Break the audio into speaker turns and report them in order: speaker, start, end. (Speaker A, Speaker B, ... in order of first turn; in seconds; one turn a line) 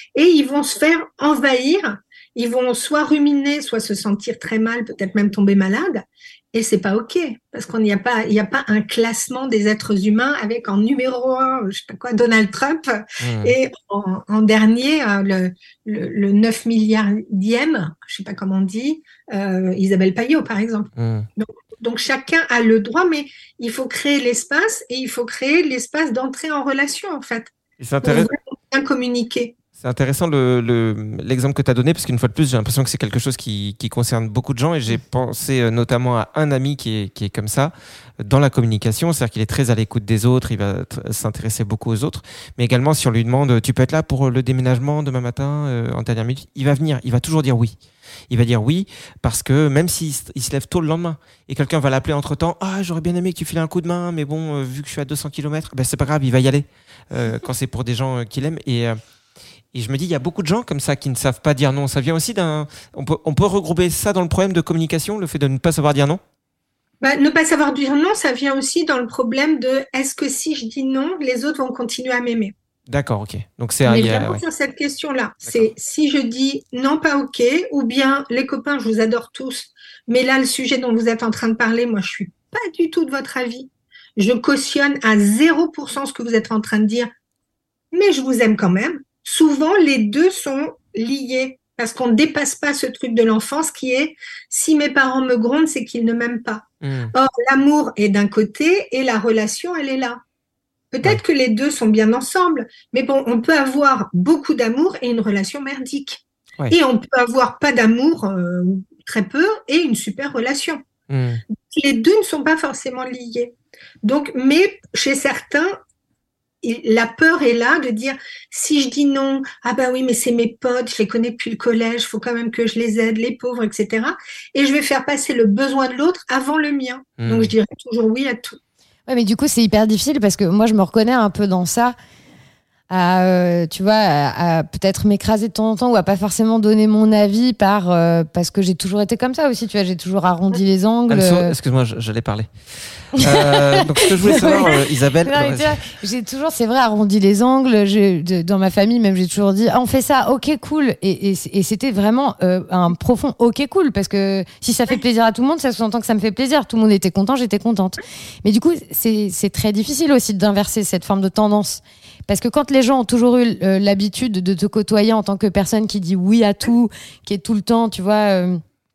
Speaker A: 0.1-27.5
Speaker B: 13.2-13.6
Speaker B: 21.0-21.3
Speaker B: 27.8-28.3
Speaker A: 28.0-29.6
Speaker B: 29.8-47.8
Speaker B: 48.3-59.0
Speaker B: 59.7-66.2
Speaker A: 67.0-72.5
Speaker B: 72.9-74.4
Speaker A: 73.8-87.1
Speaker A: 87.9-100.2
Speaker B: 96.8-97.1
Speaker A: 100.9-110.8
Speaker B: 111.1-111.4
Speaker A: 111.6-115.8
Speaker A: 116.6-128.6
Speaker B: 127.2-127.5
Speaker C: 129.1-132.0
Speaker C: 132.9-141.5
Speaker B: 141.1-142.5
Speaker B: 143.1-145.8
Speaker C: 143.2-168.6